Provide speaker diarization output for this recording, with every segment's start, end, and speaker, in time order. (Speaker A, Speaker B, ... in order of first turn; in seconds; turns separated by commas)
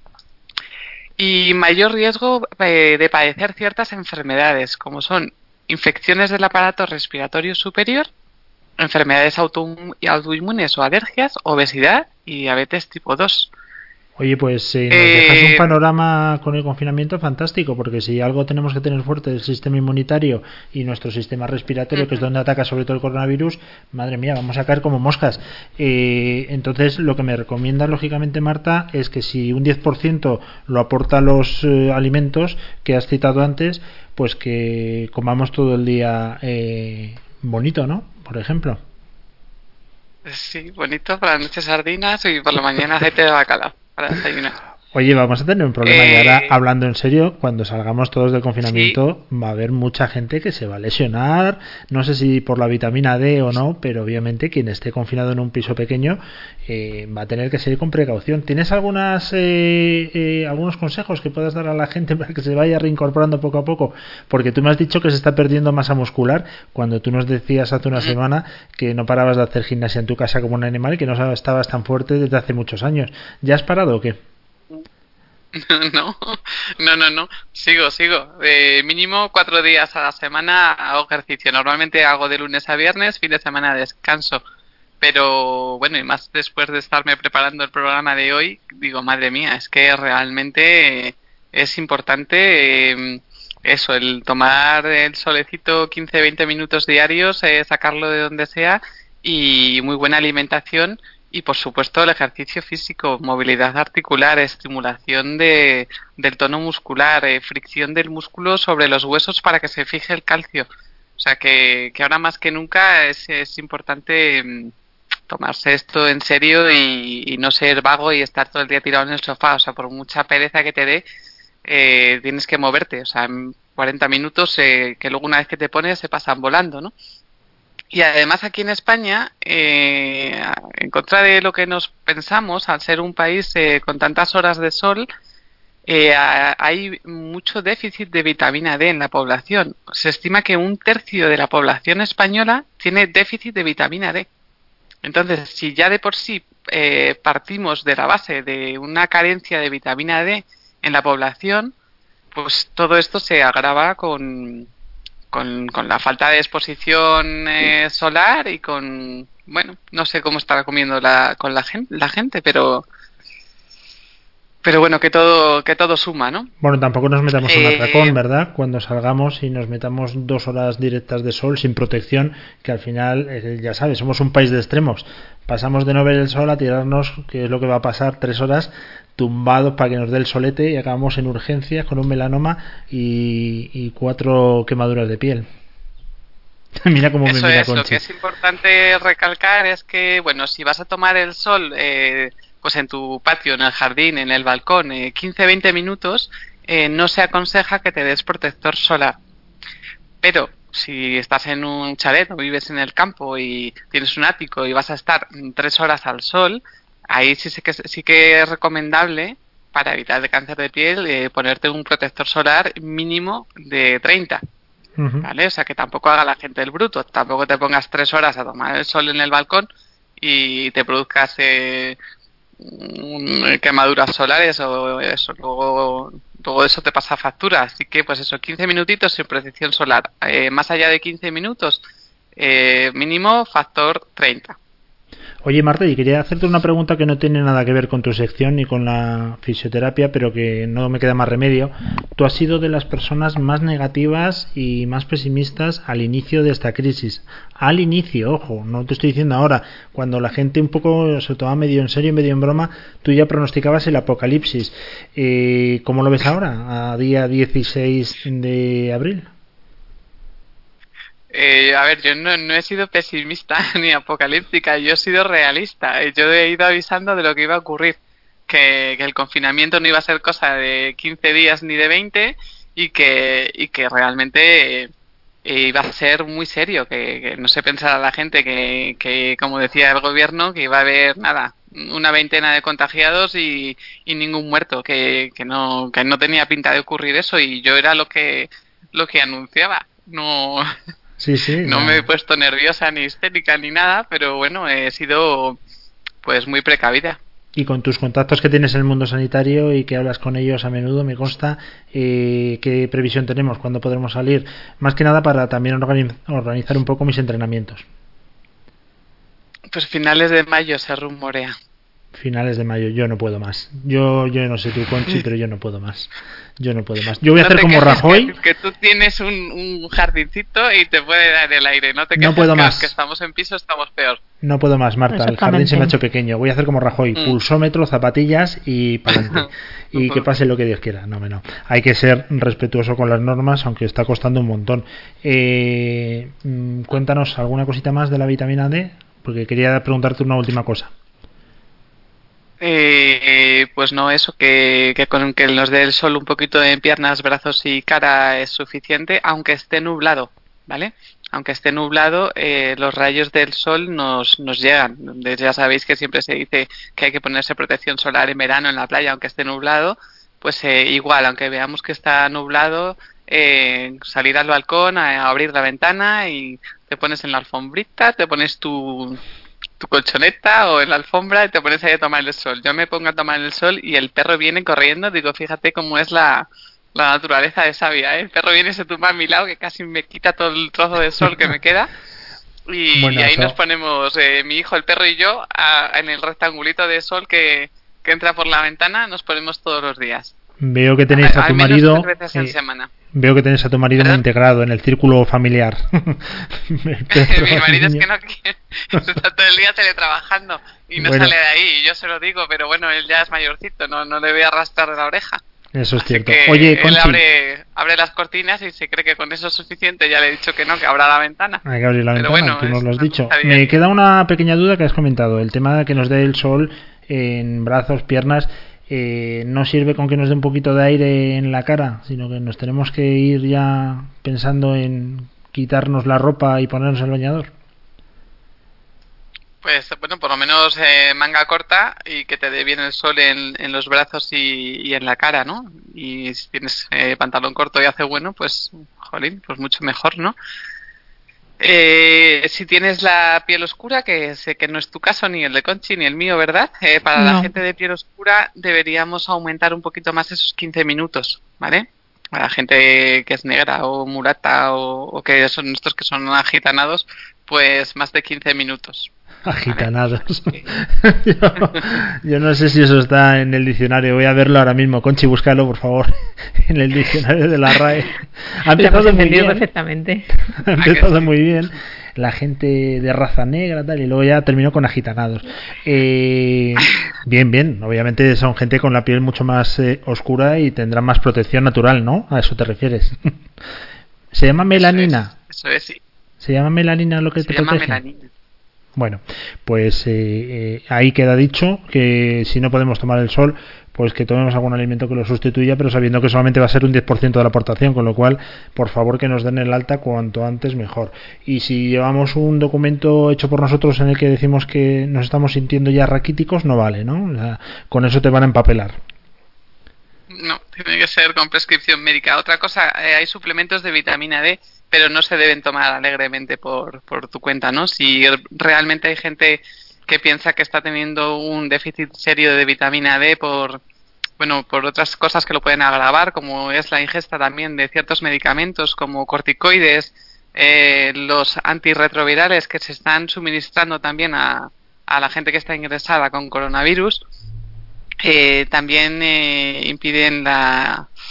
Speaker A: 1.2-8.1, Speaker A: 8.8-13.5, Speaker B: 14.2-38.8, Speaker A: 14.9-15.7, Speaker A: 21.9-22.2, Speaker A: 40.2-44.5, Speaker B: 44.9-74.2, Speaker A: 45.8-46.5, Speaker A: 48.7-49.0, Speaker A: 75.5-84.4, Speaker A: 85.0-110.7, Speaker A: 111.2-114.7, Speaker A: 115.3-121.0, Speaker A: 121.7-126.9, Speaker A: 127.9-135.1, Speaker A: 135.9-144.3, Speaker A: 145.0-151.7, Speaker A: 152.3-154.7, Speaker A: 155.3-162.8, Speaker A: 164.6-166.5, Speaker B: 166.6-185.5, Speaker A: 167.5-168.2, Speaker B: 186.8-188.0, Speaker A: 187.2-199.2, Speaker A: 200.2-214.4, Speaker B: 215.0-215.3, Speaker A: 215.2-219.7, Speaker A: 220.2-222.0, Speaker A: 222.6-231.8, Speaker A: 232.4-234.6, Speaker B: 235.4-259.3, Speaker A: 261.3-274.9, Speaker A: 275.4-290.6, Speaker B: 291.2-292.1, Speaker A: 291.6-295.6, Speaker A: 296.2-297.2, Speaker B: 297.5-307.9, Speaker A: 309.7-311.5, Speaker B: 312.1-318.3, Speaker A: 317.4-324.2, Speaker B: 322.1-322.9, Speaker B: 324.4-340.9, Speaker C: 325.1-325.9, Speaker A: 329.3-330.2, Speaker A: 342.6-369.2, Speaker A: 369.8-381.9, Speaker A: 382.7-390.3, Speaker B: 382.9-383.5, Speaker B: 390.6-392.5, Speaker A: 391.1-392.9, Speaker B: 393.1-398.1, Speaker A: 397.1-405.4, Speaker B: 401.0-401.3, Speaker B: 405.7-407.2, Speaker A: 406.0-411.6, Speaker B: 411.6-427.5, Speaker A: 412.1-413.8, Speaker A: 429.6-440.4, Speaker A: 441.6-459.1, Speaker C: 447.1-447.5, Speaker B: 459.4-469.6, Speaker C: 468.8-470.3, Speaker B: 470.6-483.3, Speaker A: 470.8-471.3, Speaker B: 484.3-485.3, Speaker A: 484.7-486.0, Speaker B: 486.4-488.0, Speaker A: 487.4-488.3, Speaker B: 488.9-508.9, Speaker A: 510.3-523.8, Speaker A: 524.4-537.2, Speaker A: 538.2-541.0